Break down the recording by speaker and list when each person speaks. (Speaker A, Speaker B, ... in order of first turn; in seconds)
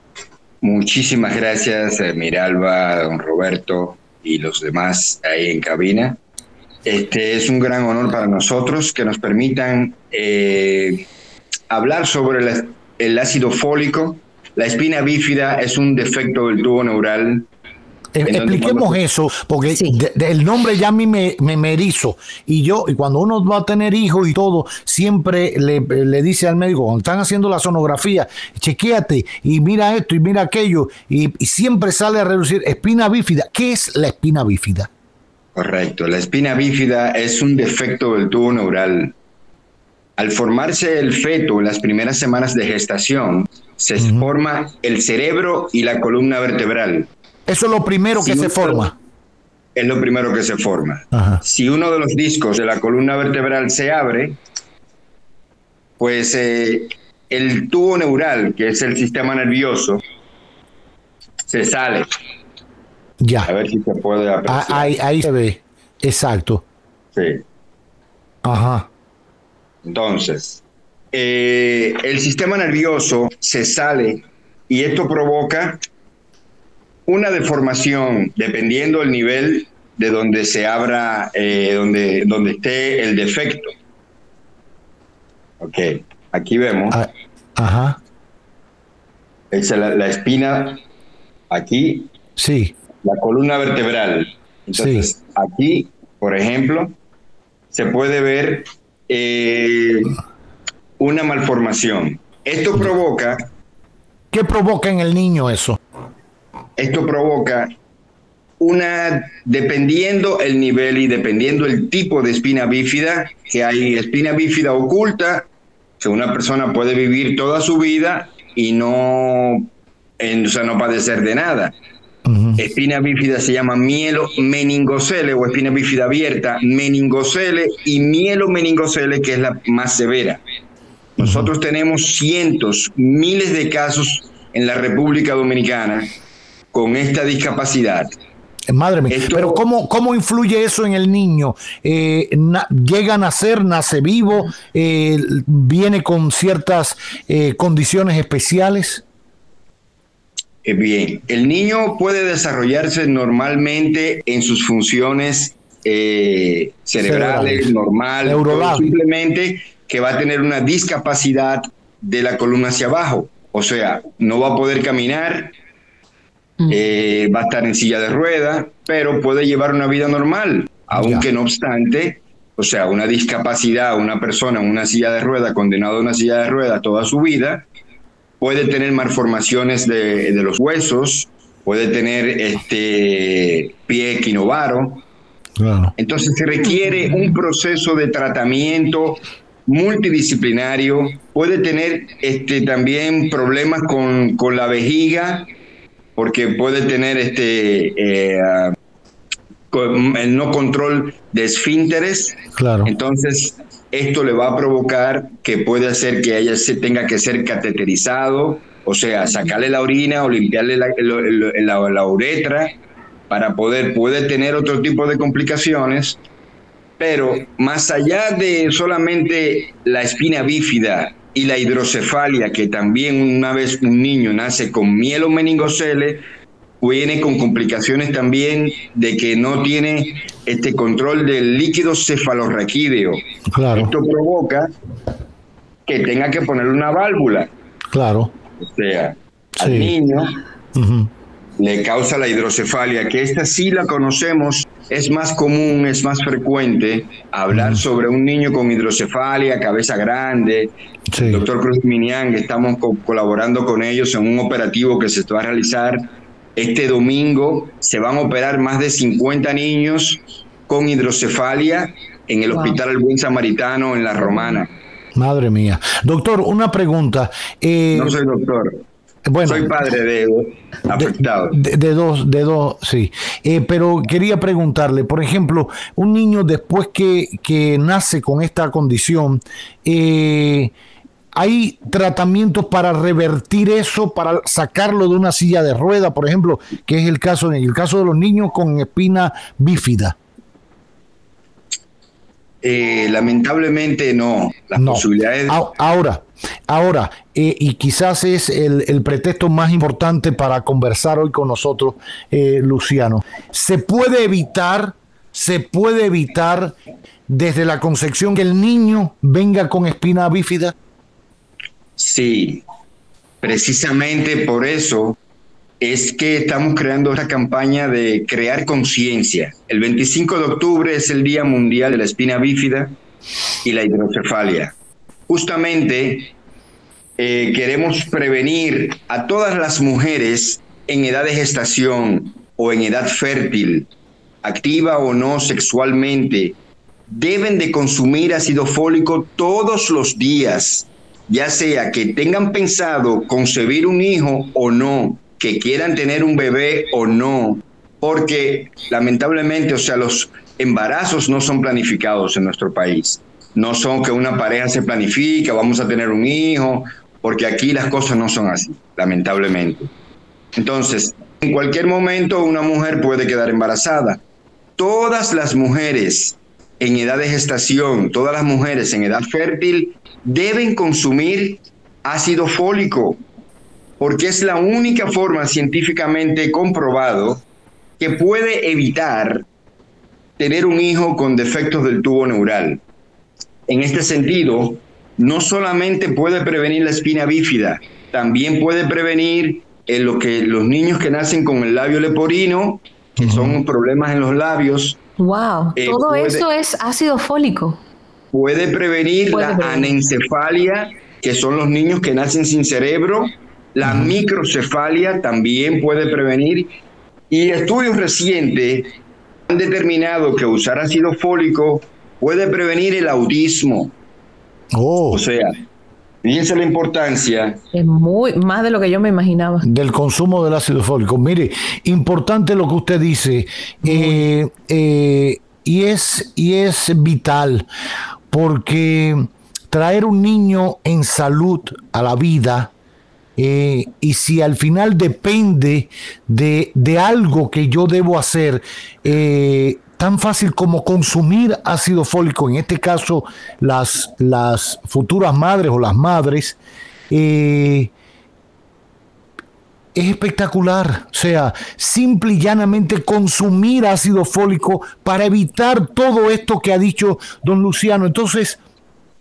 Speaker A: 0.6-6.2, 6.8-11.1, 11.7-17.5, 18.3-19.0, 35.6-39.1, 40.2-47.1, 48.2-48.9, 49.8-54.4, 56.0-60.0, 61.5-62.1, 63.5-64.9, 67.2-67.4, 69.8-75.8, 77.1-83.7, 85.6-87.0, 89.5-90.8, 91.5-92.1, 93.0-97.0, 97.7-100.2, 101.0-103.5, 106.8-107.7, 108.6-115.5, 116.0-121.8, 122.6-130.4, 131.2-136.1, 136.7-138.2, 139.1-139.6, 150.6-165.5, 166.7-177.7, 178.4-185.0, 186.0-195.5, 196.2-198.7, 199.7-212.8, 213.3-216.2, 217.0-226.2, 226.8-233.2, 233.7-234.7, 235.9-237.5, 238.6-240.4, 241.6-264.7, 267.9-268.8, 269.4-271.6, 292.6-295.6, 312.0-312.6, 313.4-315.2, 315.8-323.0, 323.6-324.7, 325.3-326.3, 327.2-333.9, 334.4-336.6, 337.1-359.9, 360.6-364.2, 364.8-373.2, 374.0-377.4, 378.0-379.5, 380.4-382.8, 383.7-395.0, 395.8-396.5, 398.3-406.7, 407.3-408.9, 409.5-413.9, 415.1-415.5, 416.2-417.6
Speaker B: 18.1-34.9, 44.0-44.3, 47.5-49.0, 51.1-51.4, 63.2-63.5, 64.5-66.6, 68.4-68.9, 86.9-88.0, 92.4-92.7, 94.8-95.1, 104.3-105.8, 122.3-122.6, 131.2-131.5, 138.7-149.0, 157.0-157.7, 158.2-158.9, 170.9-171.3, 185.6-185.9, 202.6-202.9, 233.5-233.9, 237.9-238.3, 239.6-239.9, 240.8-241.1, 247.5-247.8, 251.1-251.4, 265.1-268.2, 269.2-269.7, 270.9-280.7, 281.4-290.2, 294.8-306.8, 307.3-310.7, 393.2-393.6, 403.8-404.2, 414.7-415.2, 419.6-427.7, 428.3-432.7, 433.4-446.6, 447.1-447.9, 449.9-458.6
Speaker C: 19.7-20.0, 262.5-262.8, 264.2-264.6, 395.2-397.8, 399.3-400.0, 417.7-419.6, 423.8-424.2